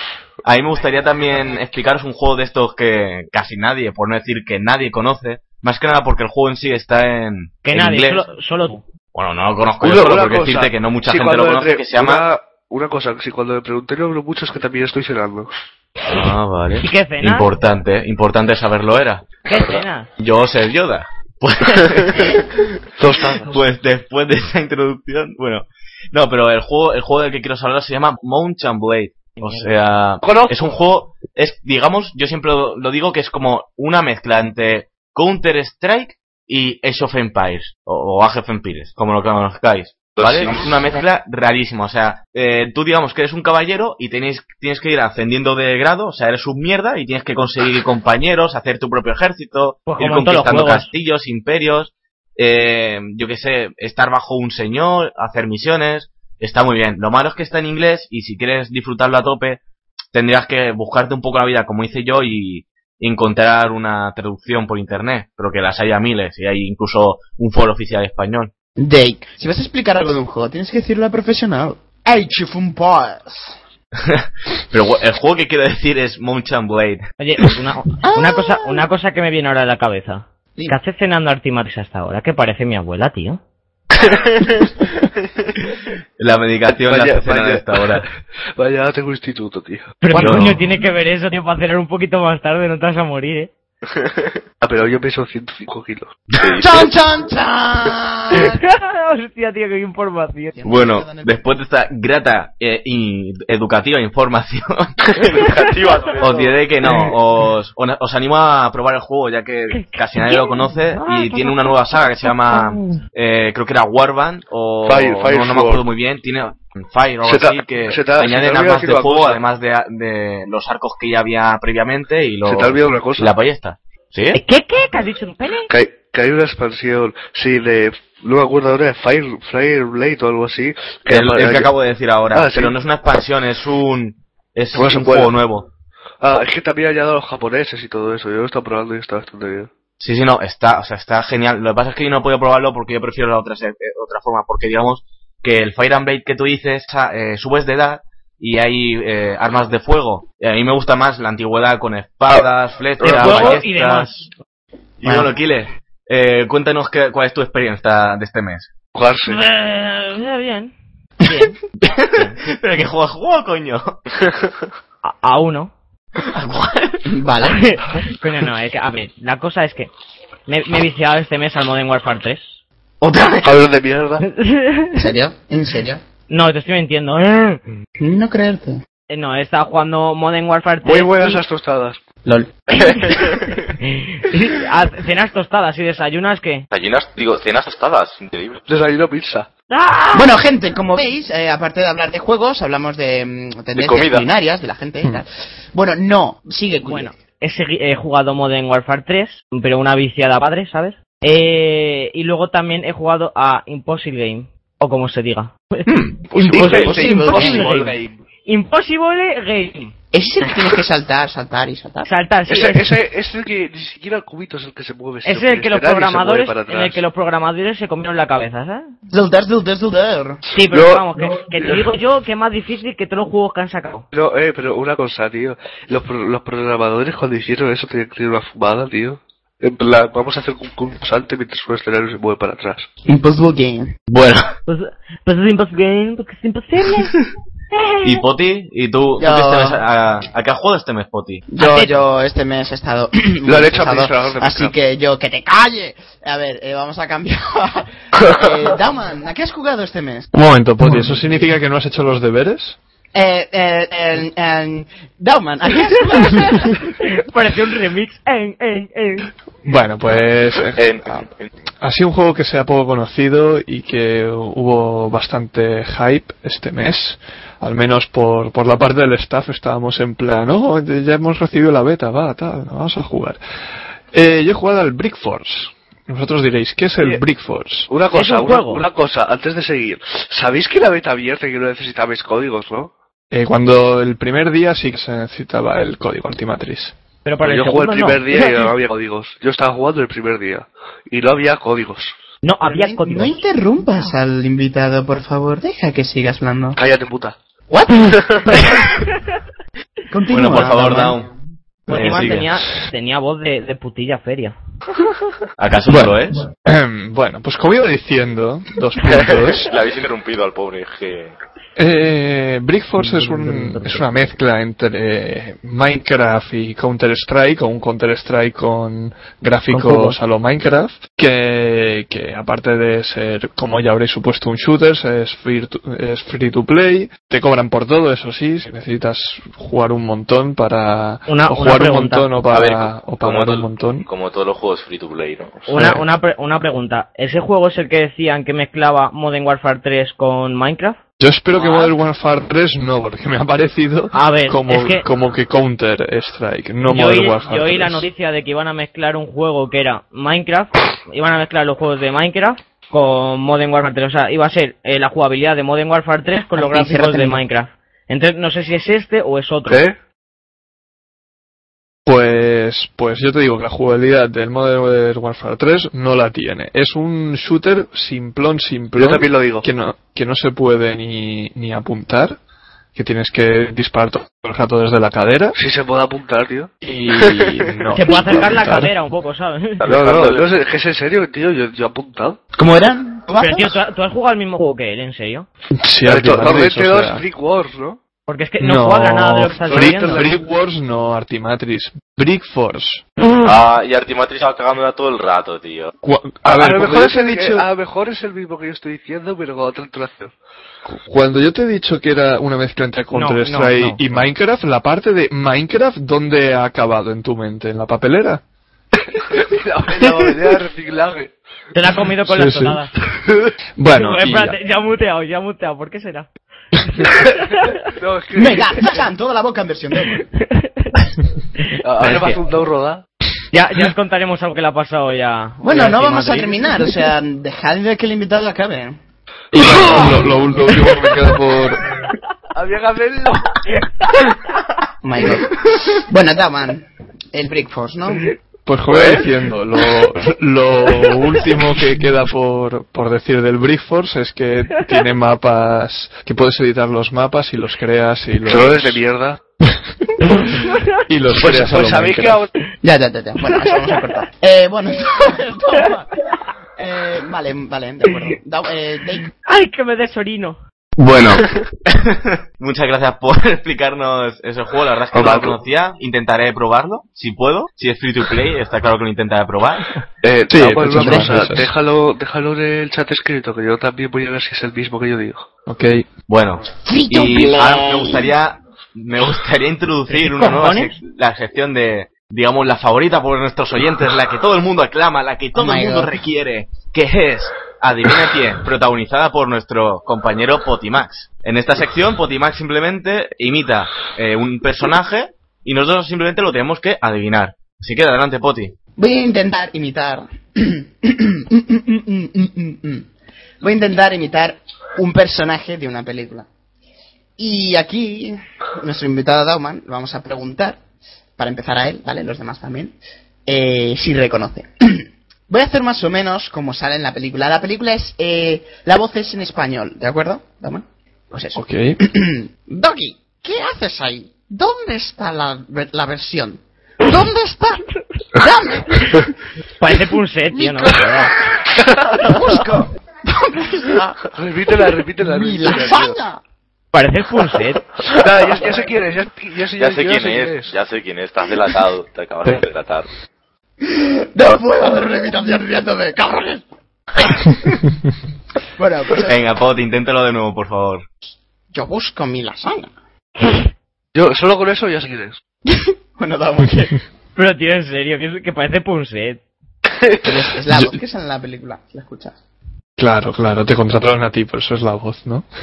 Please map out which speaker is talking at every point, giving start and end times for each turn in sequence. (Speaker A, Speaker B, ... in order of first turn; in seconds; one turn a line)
Speaker A: 0.4-8.3
Speaker B: 7.6-8.8
Speaker A: 9.1-12.2
Speaker C: 9.8-15.5
Speaker A: 16.1-19.3
Speaker B: 16.8-17.5
Speaker B: 19.4-20.1
Speaker A: 20.2-22.4
Speaker C: 23.0-23.6
Speaker A: 23.4-59.6
Speaker B: 29.4-29.7
Speaker C: 30.2-30.6
Speaker D: 40.2-40.7
Speaker B: 49.9-50.9
Speaker A: 60.1-68.5
Speaker E: 68.8-73.6
Speaker A: 74.0-77.0
Speaker B: 77.2-83.4
Speaker E: 78.0-78.8
Speaker D: 84.0-84.7
Speaker A: 86.2-88.0
Speaker C: 86.7-90.4
Speaker B: 90.0-93.5
Speaker A: 90.1-90.6
Speaker D: 93.9-94.3
Speaker C: 94.6-96.2
Speaker D: 96.4-96.9
Speaker E: 96.6-98.6
Speaker B: 98.3-100.6
Speaker E: 100.5-101.4
Speaker A: 100.6-104.9
Speaker D: 105.1-106.6
Speaker B: 105.3-105.8
Speaker A: 106.2-124.4
Speaker B: 109.7-113.0
Speaker C: 114.8-115.8
Speaker C: 117.2-119.4
Speaker C: 122.4-123.3
Speaker B: 124.3-125.7
Speaker C: 125.7-131.7
Speaker A: 131.1-135.7
Speaker C: 132.3-132.7
Speaker C: 134.7-135.3
Speaker C: 136.2-139.7
Speaker A: 140.0-154.3
Speaker C: 153.0-153.6
Speaker B: 153.0-154.1
Speaker A: 155.0-158.7
Speaker E: 155.0-155.3
Speaker C: 158.9-159.4
Speaker B: 159.2-161.6
Speaker A: 161.8-164.0
Speaker B: 165.0-165.7
Speaker A: 166.2-167.1
Speaker E: 167.1-167.6
Speaker B: 167.4-169.9
Speaker B: 170.5-172.5
Speaker A: 173.0-173.6
Speaker C: 173.4-174.2
Speaker B: 174.2-175.1
Speaker E: 174.9-176.0
Speaker B: 176.3-177.7
Speaker E: 178.0-178.8
Speaker B: 179.1-181.4
Speaker C: 180.8-182.0
Speaker E: 182.2-183.4
Speaker B: 183.8-186.7
Speaker D: 186.7-188.6
Speaker C: 188.7-189.5
Speaker B: 189.7-190.4
Speaker E: 190.1-197.1
Speaker D: 193.7-194.3
Speaker B: 196.8-209.9
Speaker E: 205.9-207.8
Speaker D: 206.5-206.8
Speaker C: 206.5-208.2
Speaker E: 210.1-212.1
Speaker B: 212.0-212.9
Speaker C: 212.5-217.0
Speaker B: 215.2-218.9
Speaker E: 219.1-220.4
Speaker B: 220.5-224.1
Speaker C: 220.7-221.9
Speaker C: 224.1-232.9
Speaker E: 233.1-233.9
Speaker A: 234.1-234.5
Speaker B: 234.7-237.2
Speaker B: 237.7-238.2
Speaker A: 238.0-241.4
Speaker E: 239.2-239.8
Speaker E: 241.5-250.3
Speaker B: 241.6-241.9
Speaker C: 243.4-244.7
Speaker C: 248.2-248.4
Speaker F: 250.3-252.8
Speaker E: 253.1-256.8
Speaker B: 256.1-259.3
Speaker F: 259.6-260.9
Speaker D: 260.7-261.5
Speaker F: 261.8-273.4
Speaker F: 274.1-277.9
Speaker C: 277.9-282.9
Speaker B: 278.1-278.8
Speaker F: 283.3-286.9
Speaker B: 287.2-288.7
Speaker C: 287.4-292.1
Speaker B: 292.4-293.4
Speaker E: 292.6-296.8
Speaker C: 296.8-297.4
Speaker C: 298.1-298.4
Speaker B: 298.5-299.1
Speaker E: 300.1-301.2
Speaker A: 300.3-301.3
Speaker A: 301.9-302.5
Speaker B: 301.9-304.5
Speaker A: 305.6-306.4
Speaker F: 305.9-309.7
Speaker D: 309.0-311.3
Speaker F: 311.8-334.1
Speaker B: 313.0-314.2
Speaker B: 319.7-320.2
Speaker B: 331.3-332.3
Speaker D: 332.5-335.7
Speaker B: 335.7-341.0
Speaker F: 335.7-336.0
Speaker F: 341.2-348.1
Speaker B: 341.5-341.9
Speaker B: 344.1-345.0
Speaker B: 346.8-359.8
Speaker E: 356.6-357.4
Speaker C: 359.7-359.9
Speaker F: 362.1-372.4
Speaker C: 368.9-369.6
Speaker F: 372.9-375.6
Speaker C: 375.5-377.5
Speaker F: 376.8-378.9
Speaker B: 377.9-379.9
Speaker D: 379.8-380.5
Speaker C: 379.9-382.4
Speaker E: 382.6-383.8
Speaker B: 383.3-385.5
Speaker F: 385.7-387.2
Speaker C: 386.1-388.0
Speaker B: 388.3-390.3
Speaker F: 388.6-393.0
Speaker C: 389.7-390.3
Speaker D: 393.4-395.9
Speaker F: 396.0-397.7
Speaker C: 396.4-400.3
Speaker F: 400.9-408.4
Speaker B: 403.1-404.0
Speaker C: 409.3-411.3
Speaker B: 411.7-412.9
Speaker F: 412.2-412.8
Speaker F: 413.8-414.6
Speaker B: 413.9-416.3
Speaker B: 416.9-417.9
Speaker C: 418.0-419.0
Speaker E: 418.3-420.2
Speaker B: 420.1-421.0
Speaker B: 421.6-422.4
Speaker C: 421.8-423.0
Speaker B: 423.5-426.9
Speaker E: 425.6-429.0
Speaker F: 429.5-431.9
Speaker C: 429.6-430.3
Speaker C: 432.5-433.6
Speaker E: 435.0-438.3
Speaker F: 438.6-449.0
Speaker C: 438.9-439.2
Speaker C: 448.5-449.4
Speaker F: 449.7-452.4
Speaker B: 450.4-450.9
Speaker C: 451.4-452.5
Speaker E: 452.8-456.2
Speaker E: 456.8-459.3
Speaker B: 459.4-460.6
Speaker A: 461.0-469.9
Speaker C: 465.1-465.6
Speaker C: 470.2-475.4
Speaker F: 470.5-471.7
Speaker F: 475.7-476.0
Speaker A: 476.3-498.7
Speaker E: 476.8-478.3
Speaker B: 480.1-481.0
Speaker E: 485.5-486.2
Speaker E: 499.0-503.1
Speaker E: 503.6-506.5
Speaker E: 507.4-510.8
Speaker E: 511.4-529.3
Speaker F: 521.5-522.0
Speaker B: 529.8-531.3
Speaker E: 530.5-534.2
Speaker C: 534.3-536.2
Speaker E: 535.2-536.4
Speaker B: 536.9-537.9
Speaker C: 538.1-540.8
Speaker D: 539.8-543.1
Speaker E: 543.8-546.6
Speaker E: 547.1-547.8
Speaker E: 548.8-549.3
Speaker A: 549.2-551.0
Speaker E: 551.7-552.9
Speaker C: 554.1-555.4
Speaker E: 555.7-557.0
Speaker B: 557.4-559.4
Speaker E: 560.2-562.4
Speaker F: 563.0-565.5